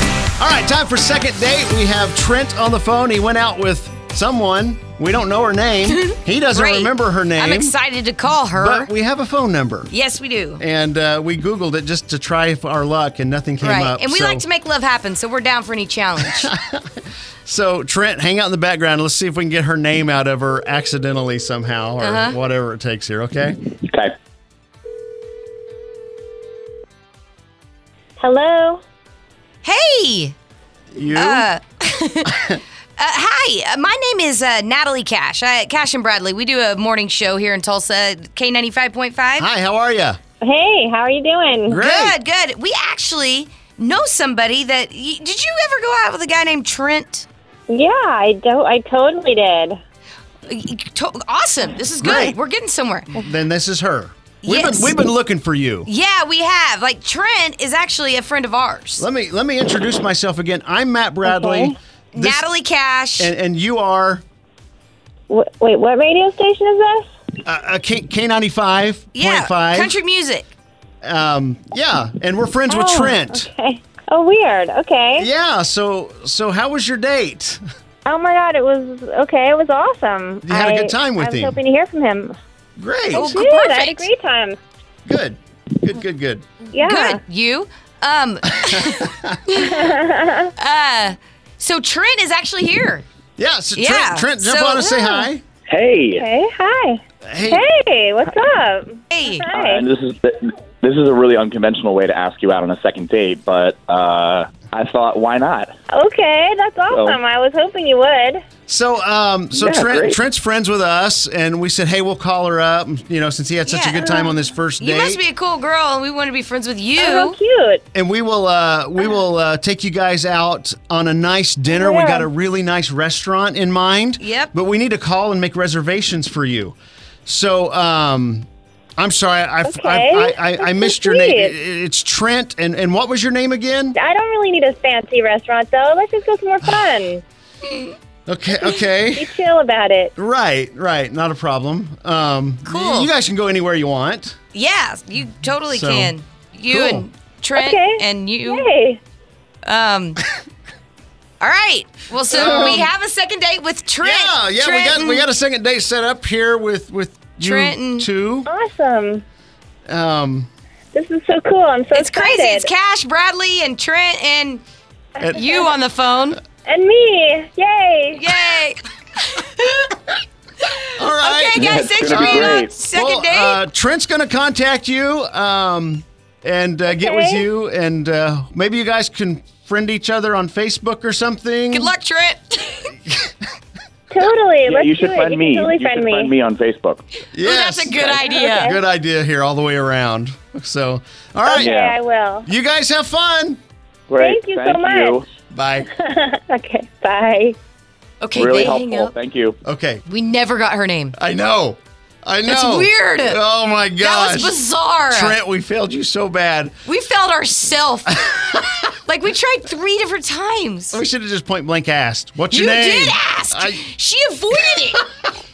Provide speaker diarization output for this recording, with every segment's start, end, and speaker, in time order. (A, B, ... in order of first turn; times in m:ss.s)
0:00.4-0:07.8 A
0:05.9-0:08.9 B
0:08.6-0:09.9 A
0:09.9-0:10.6 B
0:10.6-0:14.4 A
0:13.6-0:16.5 B
0:16.2-0:16.9 A
0:17.4-0:23.6 A
0:22.0-0:22.4 B
0:23.8-0:24.1 C
0:28.2-0:28.8 D
0:29.6-0:30.4 B
0:30.9-0:31.5 A
0:31.1-0:39.5 B
0:39.4-0:40.2 A
0:40.4-0:41.8 D
0:41.7-0:42.2 A
0:41.8-0:47.3 B
0:47.7-0:49.8 D
0:50.5-0:53.1 B
0:52.0-0:52.4 A
0:53.2-0:55.9 A
0:54.4-0:55.0 B
0:55.9-0:59.1 B
0:59.0-1:02.5 A
1:01.2-1:01.7 D
1:02.1-1:03.3 B
1:03.2-1:04.2 A
1:05.3-1:07.1 D
1:07.4-1:10.0 A
1:09.1-1:10.5 B
1:11.0-1:13.5 A
1:12.7-1:15.3 D
1:15.2-1:17.6 A
1:18.0-1:22.4 D
1:20.4-1:21.6 A
1:22.8-1:23.3 A
1:23.1-1:24.1 B
1:23.1-1:24.6 D
1:25.1-1:26.5 A
1:26.7-1:27.2 D
1:26.8-1:30.0 B
1:28.5-1:29.4 A
1:29.6-1:30.5 D
1:30.6-1:33.0 B
1:33.4-1:35.4 A
1:33.7-1:35.2 B
1:35.7-1:36.2 C
1:36.1-1:39.9 D
1:37.2-1:37.6 A
1:39.1-1:39.5 B
1:39.5-1:45.7 C
1:45.9-1:48.4 D
1:46.9-1:47.2 C
1:48.7-1:55.2 A
1:49.5-1:50.2 C
1:53.7-1:57.4 B
1:57.0-1:57.8 D
1:57.9-2:14.0 A
2:01.7-2:02.3 D
2:04.2-2:04.5 B
2:09.6-2:11.5 D
2:14.0-2:17.2 D
2:18.3-2:19.3 A
2:19.2-2:20.1 D
2:20.2-2:24.4 A
2:22.6-2:23.1 B
2:24.5-2:28.7 B
2:25.7-2:26.1 A
2:26.7-2:27.1 A
2:27.6-2:29.0 D
2:29.6-2:30.2 B
2:31.4-2:35.3 B
2:32.3-2:32.9 A
2:32.4-2:32.8 D
2:34.0-2:38.5 A
2:37.4-2:38.1 B
2:38.5-2:39.2 D
2:39.9-2:40.5 A
2:40.9-2:42.7 D
2:41.9-2:44.6 B
2:45.2-2:45.7 A
2:45.3-2:46.4 B
2:46.6-2:48.3 D
2:48.1-2:50.0 B
2:51.0-3:01.9 A
2:51.2-2:53.6 B
2:51.6-2:52.7 C
2:56.9-2:57.4 D
3:01.7-3:03.0 B
3:04.1-3:06.3 D
3:04.6-3:07.0 C
3:07.3-3:11.7 A
3:07.4-3:08.8 B
3:08.1-3:08.8 D
3:11.5-3:12.5 D
3:11.6-3:12.0 C
3:12.5-3:13.6 A
3:14.1-3:15.3 C
3:14.2-3:15.2 D
3:15.5-3:15.9 A
3:15.9-3:17.6 D
3:18.2-3:19.1 B
3:18.4-3:19.6 C
3:19.6-3:20.0 A
3:20.1-3:21.2 B
3:21.2-3:26.7 A
3:22.4-3:23.4 B
3:24.0-3:25.4 B
3:26.8-3:31.0 B
3:30.9-3:33.8 A
3:32.5-3:35.1 B